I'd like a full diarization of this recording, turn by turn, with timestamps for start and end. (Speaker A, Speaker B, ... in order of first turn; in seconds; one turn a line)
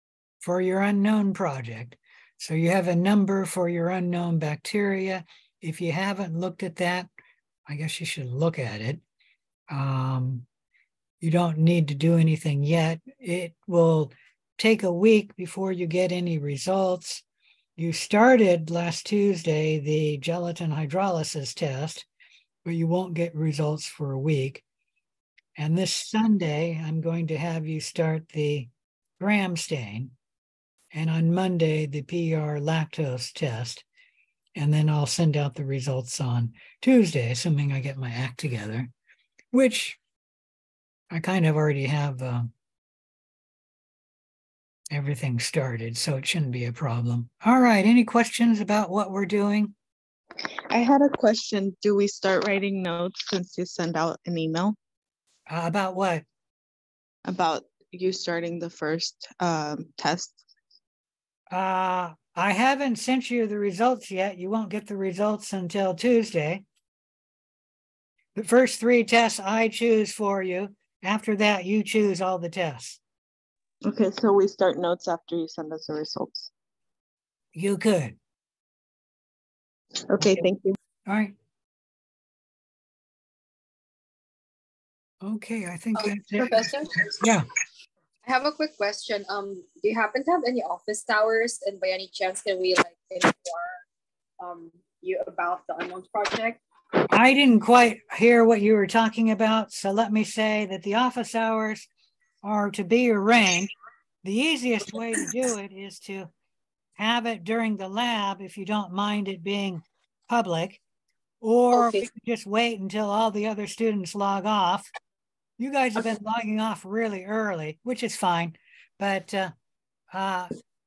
Speaker A: 0.4-7.1
Speaker A: 7.7-9.0
Speaker A: 9.7-10.4
Speaker A: 11.2-17.2
Speaker A: 17.8-22.1
Speaker A: 22.6-24.6
Speaker A: 25.6-30.1
Speaker A: 30.9-33.8
Speaker A: 34.5-38.9
Speaker A: 39.5-40.0
Speaker A: 41.1-42.5
Speaker A: 44.9-49.7
Speaker B: 50.7-54.8
Speaker A: 55.5-56.2
Speaker B: 57.2-60.4
Speaker A: 61.5-66.6
Speaker A: 68.3-73.0
Speaker B: 73.8-76.5
Speaker A: 77.5-78.2
Speaker B: 80.1-80.8
Speaker A: 81.1-81.3
Speaker A: 85.2-87.5
Speaker C: 86.0-87.2
Speaker C: 88.2-93.8
Speaker C: 94.4-96.6
Speaker A: 97.1-101.9
Speaker A: 102.4-103.7
Speaker A: 104.2-106.3
Speaker A: 107.0-110.8
Speaker A: 111.4-114.9
Speaker C: 111.7-112.0
Speaker A: 115.6-119.5
Speaker A: 120.1-120.5